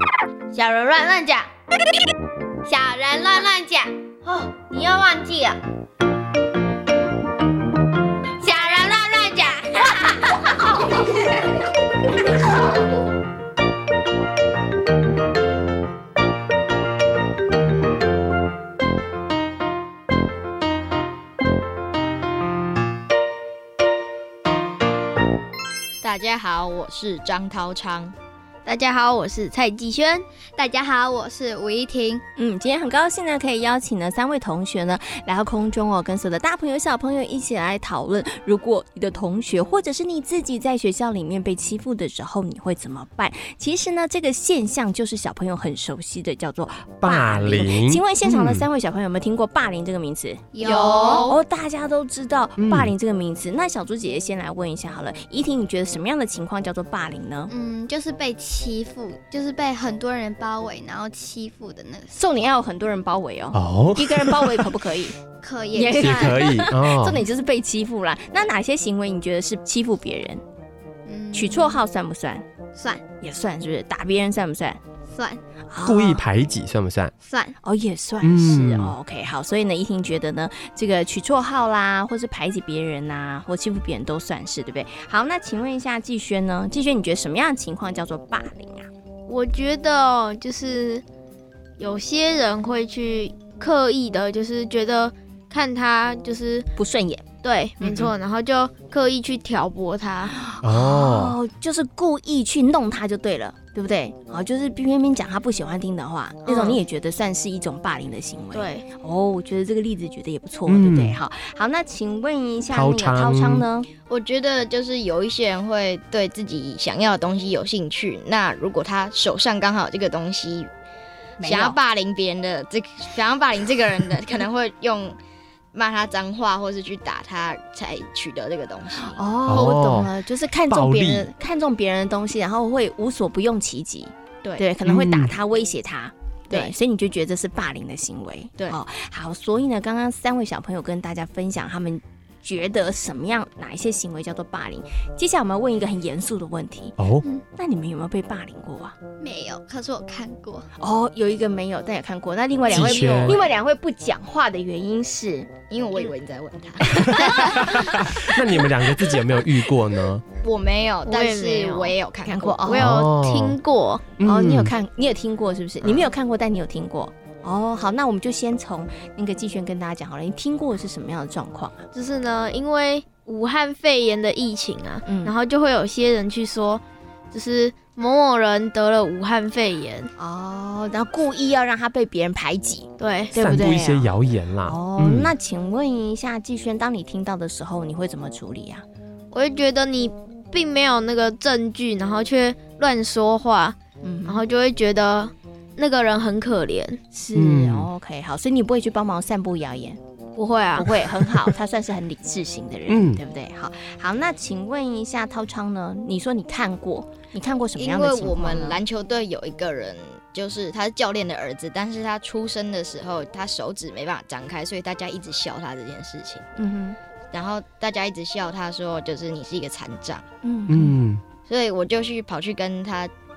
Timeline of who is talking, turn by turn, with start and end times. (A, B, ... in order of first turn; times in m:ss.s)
0:00.6-0:01.2 A
0:02.7-0:03.5 A
0:04.2-0:05.0 A
0:08.4-0:09.5 A
0:26.0-0:28.1 B
0:28.6-0:30.2 C
0:30.6-0:32.2 D
0:32.4-0:50.5 E
0:47.0-0:48.7 F
0:50.5-0:51.4 D
0:50.6-0:51.3 B
0:51.1-0:57.5 E
0:52.6-0:52.9 F
0:57.5-1:02.2 D
1:02.1-1:05.2 E
1:03.5-1:04.7 F
1:05.4-1:06.4 D
1:05.7-1:10.4 E
1:06.0-1:07.2 F
1:11.0-1:11.8 D
1:11.3-1:12.4 E
1:12.7-1:13.0 D
1:13.2-1:14.8 E
1:15.1-1:15.4 D
1:15.7-1:16.2 E
1:15.9-1:17.1 F
1:17.2-1:17.6 D
1:17.6-1:28.9 E
1:18.2-1:18.9 F
1:29.3-1:31.0 C
1:31.8-1:36.7 C
1:36.8-1:37.2 E
1:37.4-1:40.4 C
1:37.8-1:38.1 E
1:40.4-1:53.9 E
1:40.6-1:41.4 F
1:46.4-1:46.8 C
1:48.5-1:48.8 C
1:50.7-1:51.2 F
1:52.7-1:53.6 F
1:54.1-2:00.7 B
2:01.4-2:01.8 E
2:01.4-2:05.2 B
2:05.7-2:09.2 B
2:09.0-2:27.0 E
2:09.5-2:10.1 F
2:10.7-2:11.2 F
2:14.8-2:15.3 F
2:27.0-2:27.2 F
2:27.5-2:29.0 E
2:29.2-2:30.7 D
2:30.8-2:35.5 E
2:32.7-2:33.4 F
2:35.7-2:37.0 B
2:37.0-2:40.2 F
2:37.4-2:37.9 D
2:40.4-2:42.7 B
2:41.0-2:42.0 C
2:42.2-2:42.9 E
2:42.6-2:44.1 C
2:42.7-2:43.6 F
2:44.2-2:44.7 F
2:44.2-2:51.8 E
2:51.9-3:00.1 C
2:55.1-2:55.3 E
3:00.2-3:08.8 E
3:03.0-3:03.4 C
3:03.3-3:05.3 F
3:09.3-3:17.0 C
3:14.0-3:14.5 E
3:17.1-3:20.0 E
3:17.4-3:17.9 F
3:20.4-3:20.9 C
3:20.8-3:28.8 E
3:22.9-3:23.2 F
3:27.8-3:36.4 B
3:36.6-3:37.0 E
3:37.3-3:40.2 B
3:40.4-3:41.0 E
3:40.7-3:41.4 F
3:41.4-3:43.1 B